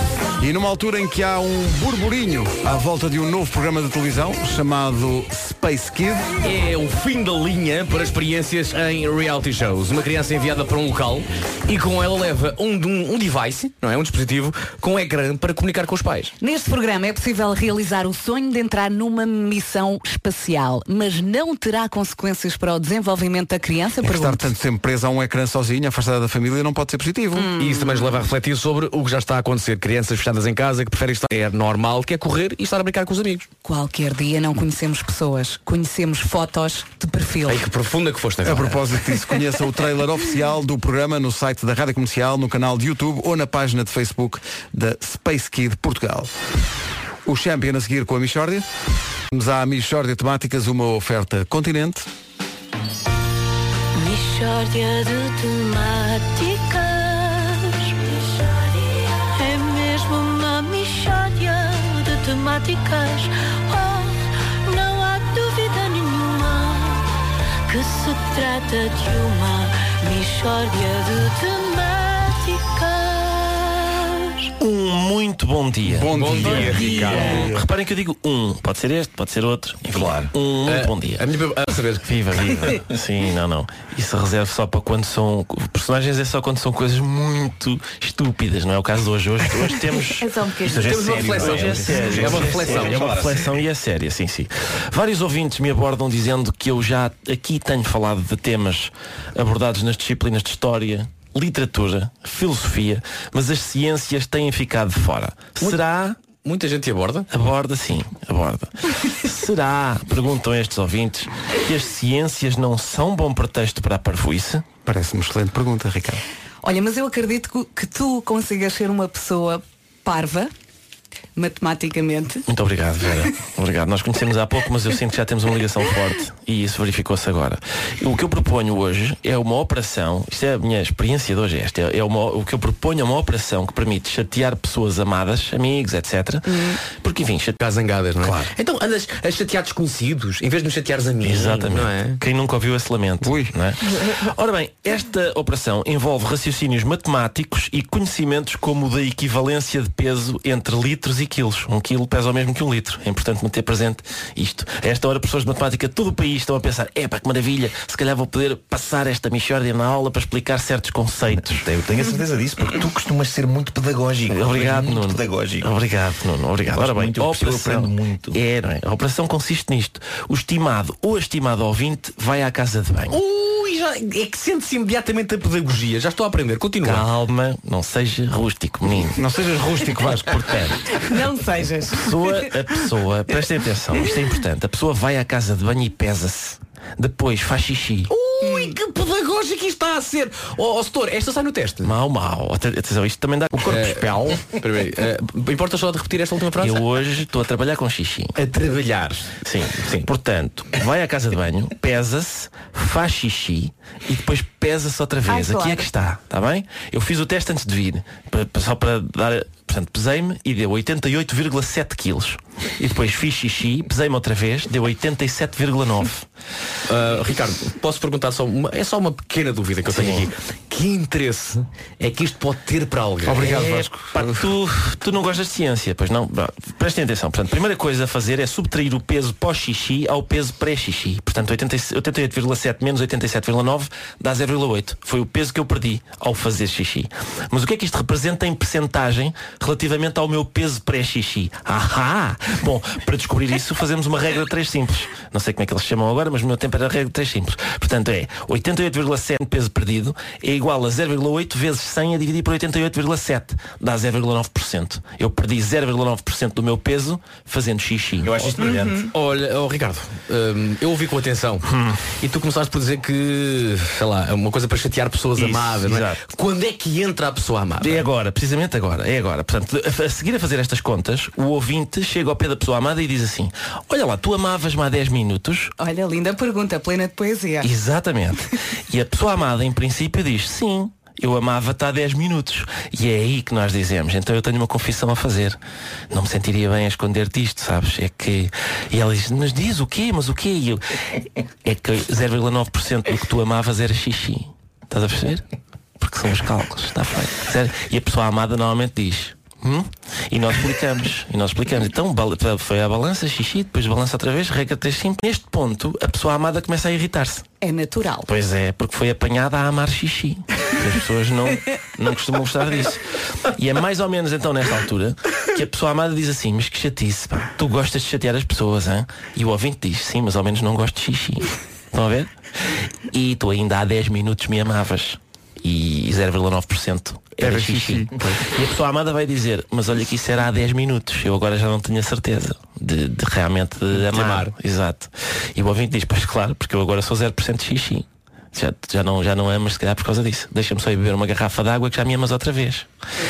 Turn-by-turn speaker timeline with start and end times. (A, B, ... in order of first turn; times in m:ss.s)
0:00.4-0:06.3 A
0:06.4-0:16.3 B
0:16.4-0:24.5 C
0:24.0-0:27.5 A
0:27.4-0:28.1 C
0:27.5-0:33.5 B
0:33.6-0:37.6 C
0:37.5-0:38.8 B
0:38.4-0:46.3 A
0:47.3-0:48.7 A
0:49.3-0:52.1 A
0:53.9-1:07.1 D
1:07.7-1:14.5 D
1:14.6-1:21.2 E
1:15.9-1:17.6 A
1:16.1-1:17.5 B
1:19.9-1:20.3 F
1:20.6-1:22.1 B
1:22.0-1:30.3 E
1:30.2-1:30.9 C
1:30.6-1:33.6 F
1:30.8-1:33.1 B
1:31.2-1:46.2 E
1:45.6-1:47.3 B
1:47.3-1:54.6 E
1:54.8-1:56.2 A
1:56.6-2:00.5 C
2:01.4-2:02.4 C
2:02.5-2:17.6 E
2:17.6-2:22.2 B
2:18.2-2:18.5 A
2:21.2-2:41.7 E
2:23.2-2:23.5 A
2:41.4-2:45.7 F
2:44.3-2:53.2 E
2:46.7-2:48.4 F
2:53.1-2:57.1 B
2:56.8-2:59.2 E
2:59.1-3:00.6 A
3:00.3-3:00.8 E
3:01.4-3:01.7 C
3:01.6-3:01.9 B
3:01.9-3:08.1 E
3:08.1-3:12.0 B
3:08.4-3:08.7 C
3:11.8-3:13.8 E
3:13.5-3:14.4 A
3:13.7-3:16.9 B
3:16.6-3:18.3 E
3:18.4-3:20.1 B
3:19.4-3:36.3 E
3:25.3-3:25.9 C
3:36.9-3:43.7 B
3:39.9-3:40.3 E
3:43.2-3:44.5 A
3:43.4-4:18.6 E
4:18.2-4:19.1 F
4:18.7-4:19.0 C
4:19.1-4:28.1 B
4:21.7-4:22.1 E
4:25.4-4:26.2 E
4:27.8-4:35.7 E
4:35.8-4:37.7 C
4:37.6-4:45.6 E
4:46.1-4:50.8 E
4:51.6-4:55.4 E
4:56.0-5:07.4 E
5:07.6-5:08.3 C
5:08.3-5:13.0 E
5:13.6-5:22.3 E
5:23.1-5:42.9 E
5:27.4-5:28.4 A
5:33.9-5:34.5 B